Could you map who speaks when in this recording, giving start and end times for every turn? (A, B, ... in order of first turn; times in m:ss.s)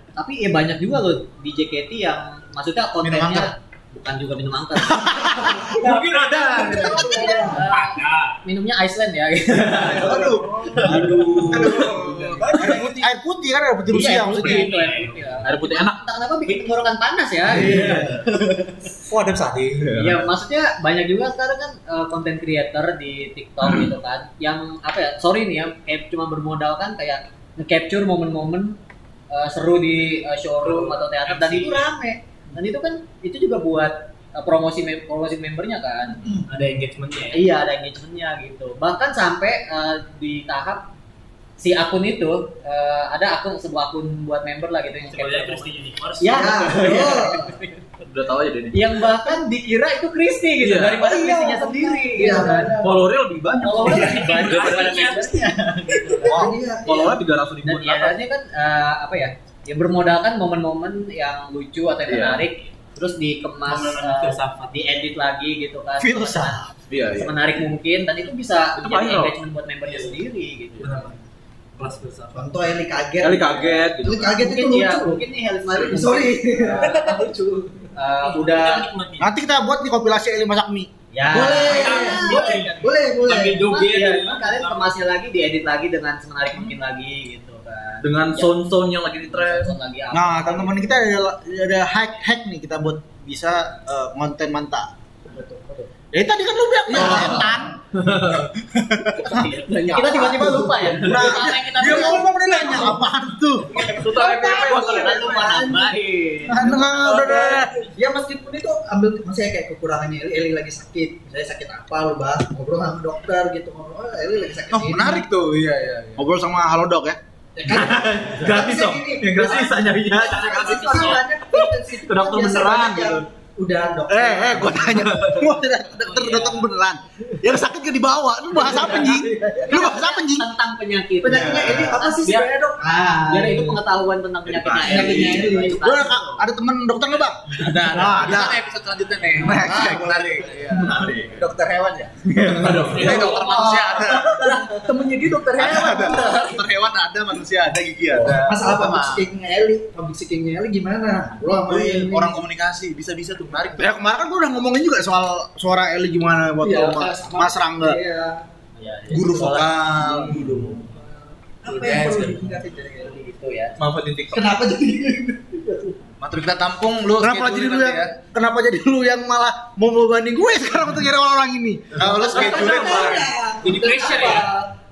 0:00.2-0:05.8 A
0:03.0-0:03.4 B
0:04.9-0:05.8 C
0:05.7-0:08.4 D
0:05.9-0:07.6 E
0:06.6-0:10.3 A
0:06.7-0:07.0 C
0:09.7-0:14.7 C
0:09.8-0:13.0 B
0:10.3-0:11.4 E
0:10.7-0:11.8 D
0:13.9-0:18.1 A
0:14.4-0:15.4 D
0:15.4-0:16.0 F
0:17.5-0:20.2 B
0:20.0-0:28.8 A
0:29.3-0:36.2 A
0:30.6-0:31.9 D
0:36.4-0:37.5 D
0:37.3-0:40.9 A
0:41.6-0:47.7 A
0:45.1-0:47.0 D
0:46.4-0:47.5 E
0:48.0-0:49.1 F
0:48.7-0:52.8 A
0:50.6-0:51.2 F
0:51.0-0:53.0 E
0:52.4-0:54.9 F
0:53.6-0:56.4 A
0:53.8-0:56.2 D
0:56.2-0:57.2 E
0:56.4-0:58.2 F
0:57.6-1:11.2 A
1:02.1-1:02.4 F
1:03.7-1:04.8 D
1:06.0-1:06.7 C
1:06.9-1:07.3 F
1:08.8-1:09.4 F
1:09.8-1:10.2 D
1:10.8-1:11.1 D
1:11.8-1:12.5 D
1:12.3-1:17.1 E
1:13.2-1:14.4 F
1:14.4-1:17.3 A
1:16.8-1:19.3 D
1:18.0-1:18.9 A
1:19.2-1:20.9 C
1:21.1-1:22.9 A
1:21.3-1:23.7 E
1:21.4-1:24.9 D
1:23.6-1:28.5 A
1:28.0-1:29.8 F
1:29.2-1:31.1 A
1:30.1-1:34.9 C
1:35.3-1:35.9 E
1:36.1-1:37.8 C
1:36.9-1:37.6 E
1:36.9-1:37.4 A
1:38.9-1:45.7 C
1:39.3-1:43.0 A
1:43.7-1:47.2 A
1:44.4-1:46.0 E
1:44.5-1:45.2 B
1:46.4-1:47.7 C
1:46.6-1:55.2 E
1:54.7-1:56.2 B
1:54.8-1:55.2 C
1:56.2-1:57.2 C
1:57.6-2:05.3 E
1:57.7-2:01.2 F
2:00.4-2:01.1 A
2:00.7-2:01.1 D
2:02.1-2:03.2 F
2:04.1-2:10.5 C
2:06.0-2:06.7 A
2:08.6-2:12.5 A
2:11.2-2:13.8 E
2:11.3-2:11.9 C
2:11.6-2:11.9 B
2:13.3-2:16.4 A
2:14.5-2:15.0 B
2:14.7-2:15.8 E
2:14.8-2:18.6 C
2:17.6-2:29.3 B
2:19.4-2:20.4 C
2:20.8-2:21.5 F
2:22.6-2:23.1 F
2:22.7-2:23.6 D
2:23.0-2:24.3 C
2:23.1-2:24.0 A
2:25.6-2:25.9 C
2:28.2-2:32.4 E
2:31.4-2:34.0 B
2:33.7-2:38.0 C
2:36.6-2:38.4 E
2:38.8-2:40.3 A
2:39.1-2:40.6 C
2:40.0-2:43.3 E
2:40.0-2:40.4 B
2:41.9-2:42.3 B
2:43.0-2:43.8 A
2:43.8-2:44.6 F
2:44.3-2:46.0 E
2:46.2-2:48.2 B
2:47.2-2:53.1 C
2:52.0-2:53.3 B
2:52.0-2:54.7 E
2:53.6-2:54.5 D